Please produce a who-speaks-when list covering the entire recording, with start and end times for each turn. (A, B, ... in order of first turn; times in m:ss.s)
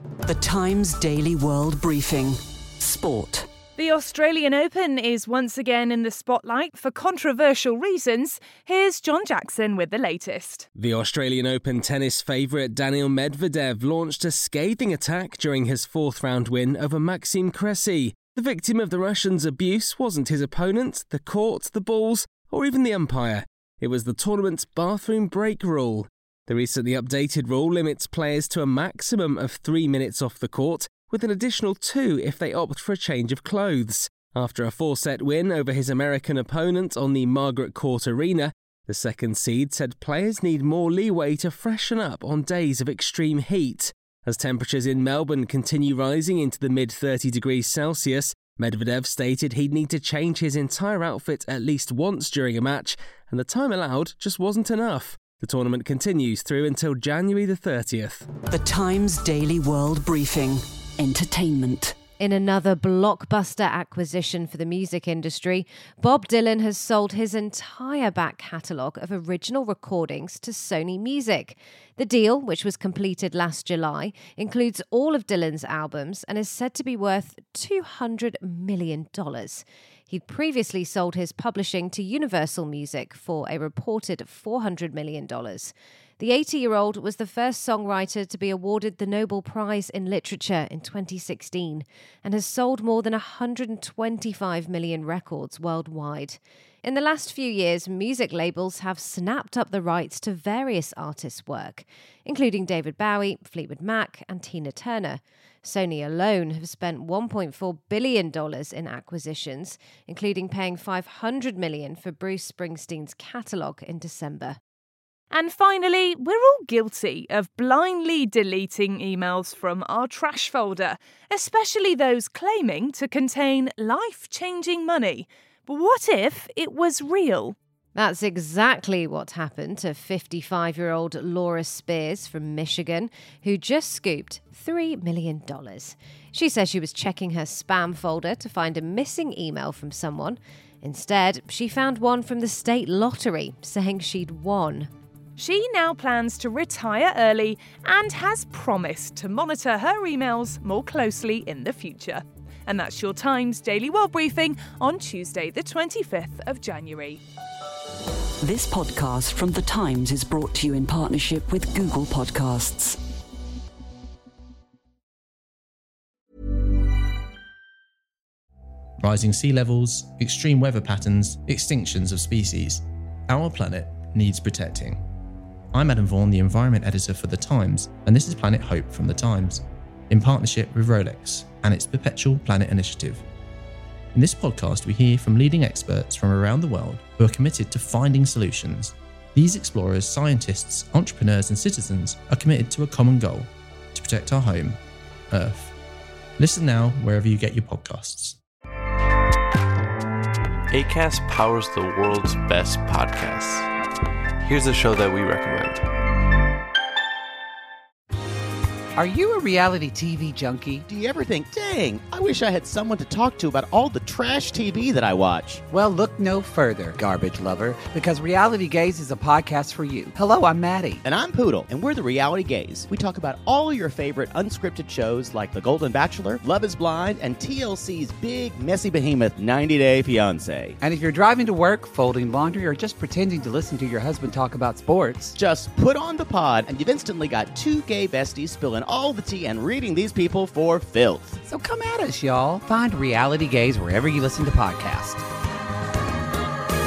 0:00.2-0:03.5 A
0:03.8-0:10.7 B
0:10.8-0:58.3 C
0:58.5-1:02.0 A
1:02.2-1:54.6 D
1:55.3-2:07.6 B
2:08.0-2:24.9 D
2:25.4-2:37.2 B
2:38.4-2:43.0 A
2:49.0-2:55.0 E
2:55.7-3:03.2 E
3:04.1-3:14.8 E
3:15.3-3:15.8 E
3:16.4-3:18.4 E
3:20.7-3:23.7 F
3:24.4-3:25.8 F
3:29.0-3:30.8 G
3:30.9-3:35.6 H
3:35.7-3:41.0 G
3:41.0-3:50.8 H
3:50.8-3:55.3 G
3:55.4-4:01.4 H
4:01.4-4:05.2 G